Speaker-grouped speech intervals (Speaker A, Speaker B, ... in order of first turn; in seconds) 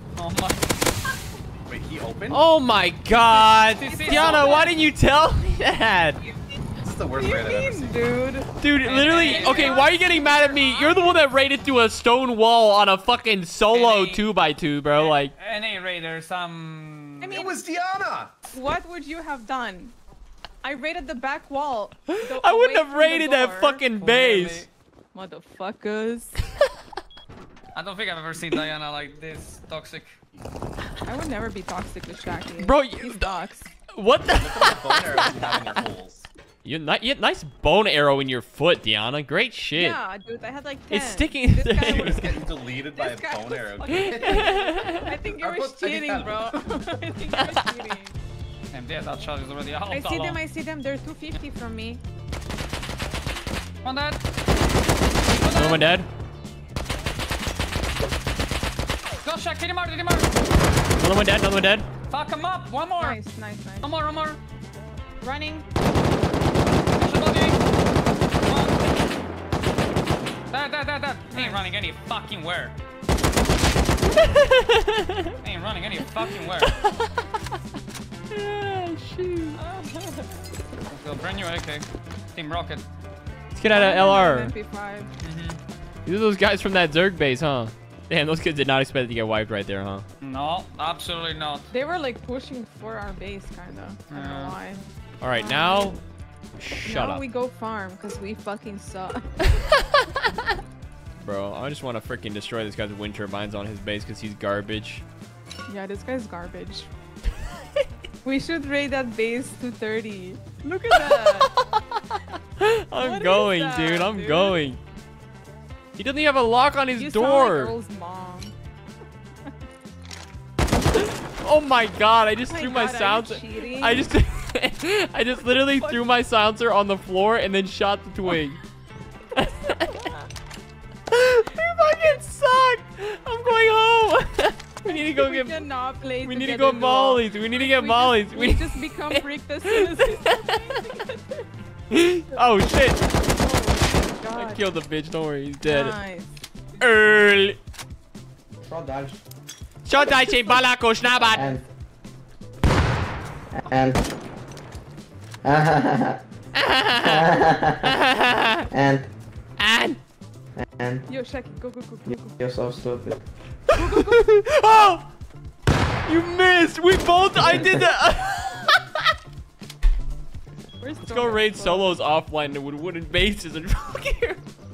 Speaker A: 0.1-0.7, 3.8-4.7, 8.8-9.8, 13.7-14.2, 14.9-17.4, 23.9-24.7, 27.7-30.2, 48.7-50.4, 53.8-54.2, 55.3-55.9, 59.2-60.3, 62.1-63.2, 63.8-64.4, 67.0-67.6, 68.4-68.8, 70.5-72.8, 75.4-76.8, 80.9-82.8, 85.2-85.6, 90.2-91.7, 94.1-94.6
Speaker B: 1.6-2.4, 6.8-8.2, 17.3-18.3, 34.3-36.3, 41.8-47.0
Speaker C: 2.3-6.2, 8.6-15.3, 22.1-24.7, 32.6-33.3, 33.9-35.5, 36.6-40.0, 40.9-42.3, 44.3-45.0, 55.5-56.1, 61.0-61.9, 74.2-75.3, 76.7-77.1, 78.3-79.6, 83.5-84.5, 86.0-90.0, 95.2-96.0, 96.6-97.2, 101.2-105.0, 110.9-114.8, 116.0-117.7, 121.4-128.6, 129.3-129.9, 131.1-135.6, 136.2-140.5, 141.9-143.0, 144.3-145.9, 146.8-147.6, 149.8-151.5, 156.6-157.2, 157.8-158.6, 159.6-160.0, 163.7-165.1, 166.1-168.8, 171.0-174.4
Speaker D: 3.6-4.7, 7.1-8.5, 9.1-11.2, 17.2-17.5, 18.5-19.9, 20.6-23.8, 25.1-26.4, 31.0-33.7, 39.7-48.2, 49.9-52.0, 63.0-63.9, 65.2-65.7, 71.3-71.7, 79.6-80.4, 83.7-85.1, 91.7-96.0, 96.8-99.5, 105.7-106.9, 108.2-111.5, 113.0-114.6, 117.0-118.5, 122.5-124.0, 125.8-126.0, 129.7-130.2, 134.8-141.5, 143.3-144.6, 145.6-146.3, 161.1-162.4, 163.7-164.3, 170.8-172.0
Speaker E: 148.7-149.2, 151.3-151.7, 153.5-154.0, 155.4-156.2, 157.0-158.0, 158.7-159.1, 160.6-161.1, 162.1-163.2